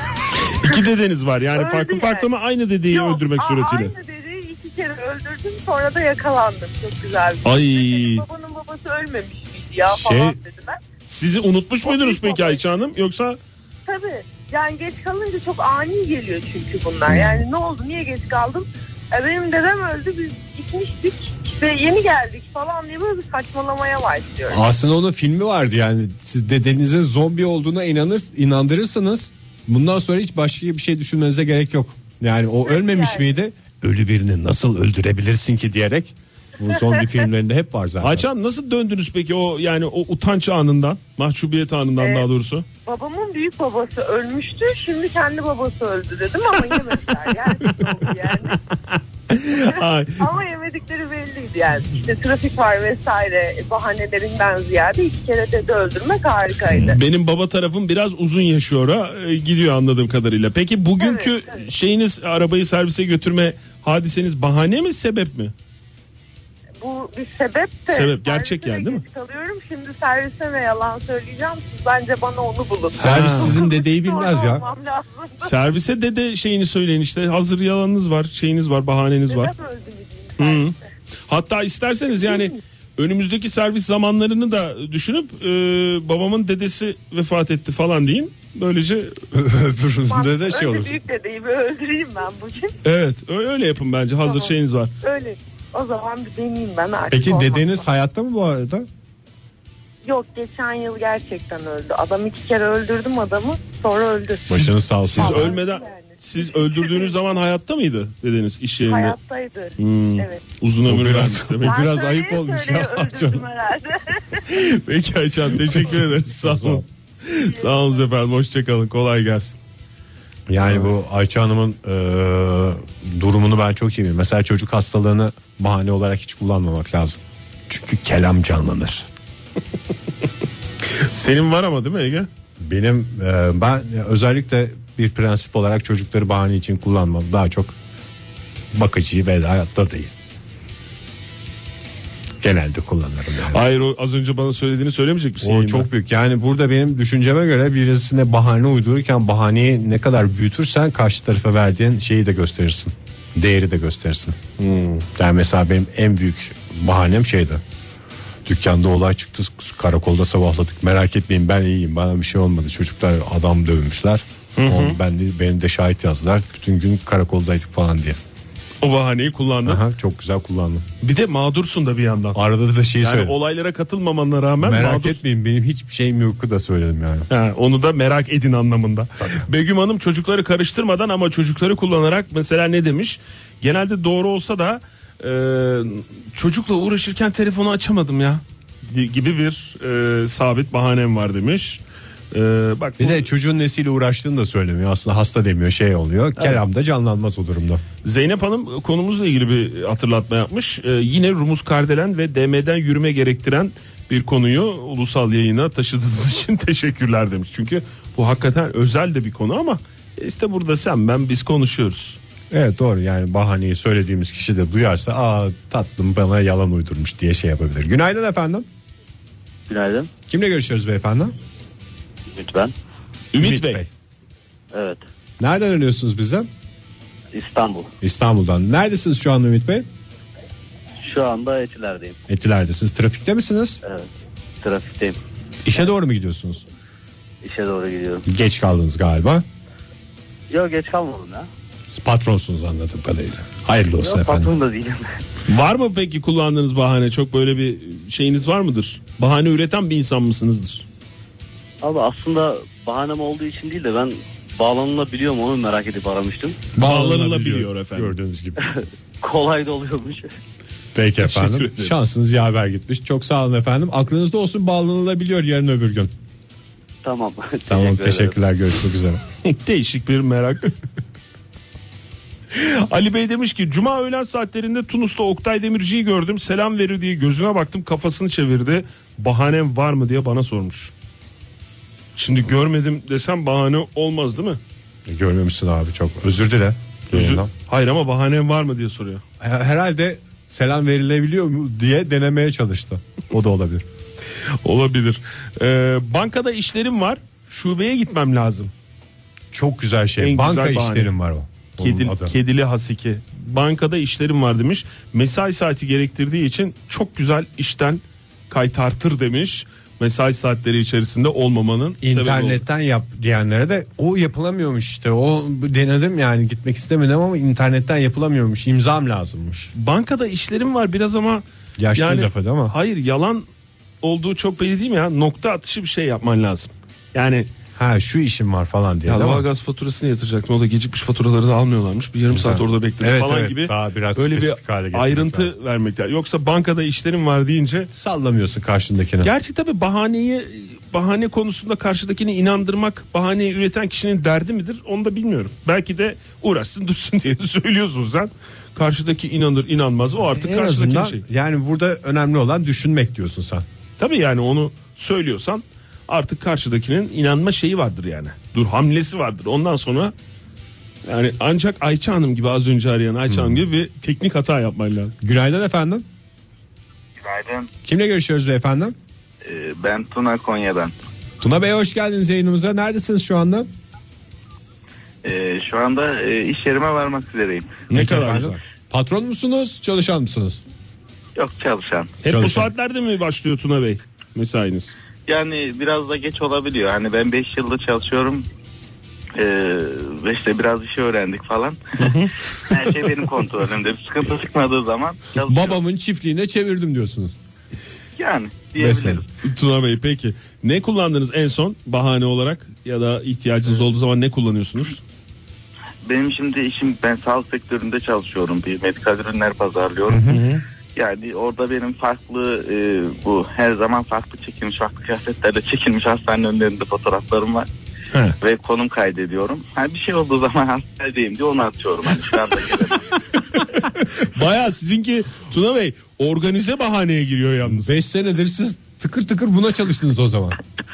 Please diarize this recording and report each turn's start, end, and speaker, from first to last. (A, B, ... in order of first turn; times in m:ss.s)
0:00.4-0:03.9 A
0:01.6-0:02.3 B
0:02.9-0:10.8 B
0:07.4-0:08.2 A
0:09.9-0:10.4 C
0:11.1-0:13.4 A
0:11.8-0:12.6 B
0:13.9-0:24.6 B
0:17.1-0:17.4 C
0:24.5-0:38.3 C
0:32.7-0:33.3 B
0:38.0-0:42.7 A
0:42.0-0:42.3 B
0:42.8-0:48.6 B
0:47.6-0:48.1 A
0:48.9-0:50.2 A
0:49.5-0:57.0 B
0:56.8-1:05.5 A
1:01.0-1:01.6 B
1:06.8-1:15.5 B
1:07.9-1:09.0 A
1:12.9-1:14.6 C
1:13.0-1:13.6 A
1:15.4-1:19.5 A
1:19.3-1:20.8 B
1:20.4-1:20.8 A
1:21.3-1:29.2 A
1:22.2-1:22.5 B
1:29.3-1:31.0 C
1:30.1-1:32.7 B
1:32.8-1:34.9 A
1:34.2-1:37.8 B
1:37.1-1:38.9 C
1:40.0-1:47.2 B
1:44.5-1:45.5 C
1:45.1-1:49.2 A
1:48.8-1:50.4 B
1:49.8-1:51.8 A
1:50.8-1:53.4 C
1:51.6-1:54.4 B
1:54.5-1:59.6 A
1:55.7-1:56.8 C
1:57.4-1:58.0 B
2:00.5-2:09.1 C
2:10.8-2:12.3 A
2:12.6-2:17.7 C
2:18.7-2:20.1 C
2:22.4-2:23.6 C
2:23.5-2:25.9 A
2:25.4-2:34.4 C
2:34.6-2:35.1 A
2:35.1-2:37.6 C
2:38.4-2:48.2 C
2:44.6-2:45.0 A
2:48.8-2:49.8 A
2:49.6-2:50.9 C
2:51.0-2:52.4 A
2:52.3-2:53.4 C
2:53.0-2:55.2 A
2:54.6-2:57.3 C
2:57.3-3:11.8 A
3:12.3-3:13.3 A
3:13.0-3:17.8 C
3:18.0-3:32.2 A
3:32.5-3:38.7 C
3:39.7-3:40.1 D
3:40.3-3:41.3 C
3:42.3-3:42.7 D
3:43.3-3:43.8 A
3:43.4-3:43.9 C
3:44.7-3:45.0 D
3:45.4-3:46.5 C
3:47.3-3:47.9 D
3:48.0-3:49.9 C
3:51.0-3:52.2 D
3:52.3-3:53.8 C
3:53.8-3:54.1 D
3:54.6-3:55.2 D
3:55.6-3:56.6 C
3:57.4-3:58.2 D
3:58.3-3:59.4 C
4:00.5-4:01.5 D
4:01.9-4:04.5 C
4:04.0-4:05.1 D
4:05.5-4:10.8 A
4:11.8-4:16.6 D
4:16.8-4:18.6 C
4:16.8-4:18.1 A
4:18.6-4:20.3 D
4:21.0-4:26.1 C
4:21.2-4:22.0 A
4:27.0-4:28.3 D
4:27.7-4:29.2 C
4:29.4-4:30.7 A
4:32.5-4:40.9 A
4:42.2-4:44.6 A
4:45.1-4:47.5 C
4:47.1-4:49.2 A
4:49.4-4:53.8 C
4:54.6-4:58.7 A
4:59.5-5:02.4 C
5:00.2-5:01.1 A
5:01.8-5:12.6 A
5:12.0-5:19.7 C
5:19.7-5:23.5 A
5:21.8-5:22.8 C
5:24.0-5:27.5 A
5:27.8-5:29.5 C
5:29.1-5:37.9 A
5:32.3-5:35.5 C
5:37.9-5:39.3 C
5:39.2-5:51.2 A
5:50.3-5:53.6 C
5:54.0-6:00.1 A
6:01.0-6:05.2 A
6:03.3-6:03.6 C
6:05.2-6:06.0 C
6:07.2-6:07.7 E
6:07.8-6:09.0 C
6:09.4-6:10.9 E
6:11.4-6:13.7 C
6:15.2-6:17.8 E
6:17.9-6:18.6 A
6:17.9-6:20.6 C
6:21.4-6:22.2 E
6:22.2-6:25.0 A
6:22.2-6:22.7 C
6:25.3-6:28.5 E
6:29.4-6:32.1 E
6:32.0-6:32.4 A
6:32.7-6:35.8 E
6:35.4-6:37.4 C
6:38.2-6:39.3 E
6:38.8-6:39.2 C
6:39.4-6:45.0 A
6:46.0-6:50.3 E
6:50.1-6:50.4 C
6:50.3-6:50.6 A
6:51.0-6:57.7 E
6:58.4-7:03.1 E
7:03.6-7:07.9 A
7:07.6-7:10.6 C